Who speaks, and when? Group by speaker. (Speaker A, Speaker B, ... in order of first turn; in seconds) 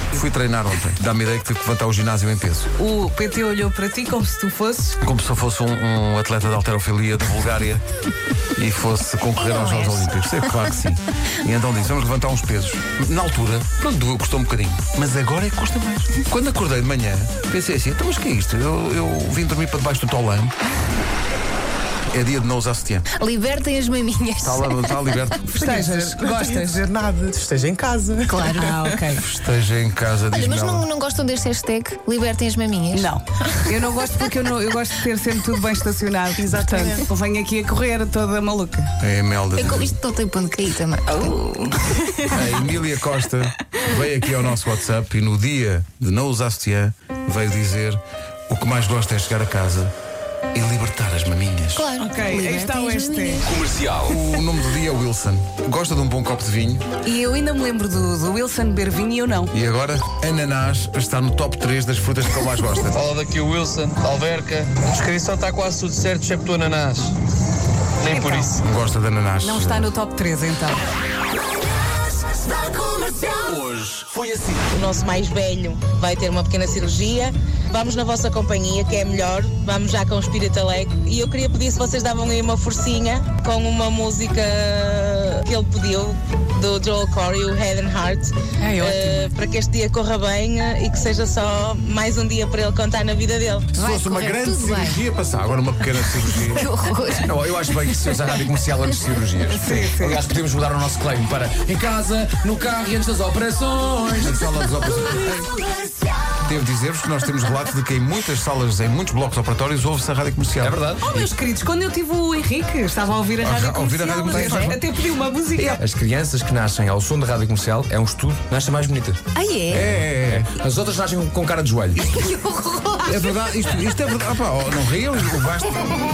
Speaker A: 0.1-2.7, 5.0-7.8, 8.6-20.5, 22.1-23.1, 24.4-25.8, 29.2-30.9, 39.0-40.0, 42.3-49.9, 50.5-51.9, 54.1-56.8, 59.5-63.0, 68.6-69.9, 93.7-96.7, 104.2-105.5, 106.4-111.2, 113.4-114.8, 119.7-120.5, 123.0-125.9
Speaker B: 2.8-5.0, 25.6-27.1, 28.5-29.3, 32.9-38.9, 52.0-53.4, 57.0-59.5, 68.0-68.6, 69.4-70.8, 99.5-100.2, 111.0-115.8
Speaker C: 9.4-10.6, 23.1-25.1, 28.3-28.8, 30.3-33.2, 39.6-42.3, 51.8-53.6, 93.7-95.0, 96.2-97.3, 114.3-114.7, 119.3-119.9, 122.0-123.3
Speaker D: 26.4-28.3, 36.4-36.8
Speaker E: 53.5-54.1, 73.3-74.6
Speaker F: 62.9-67.1, 68.0-68.6
Speaker G: 74.7-93.7
Speaker H: 97.3-104.3, 110.6-111.0, 115.6-119.2, 119.9-122.1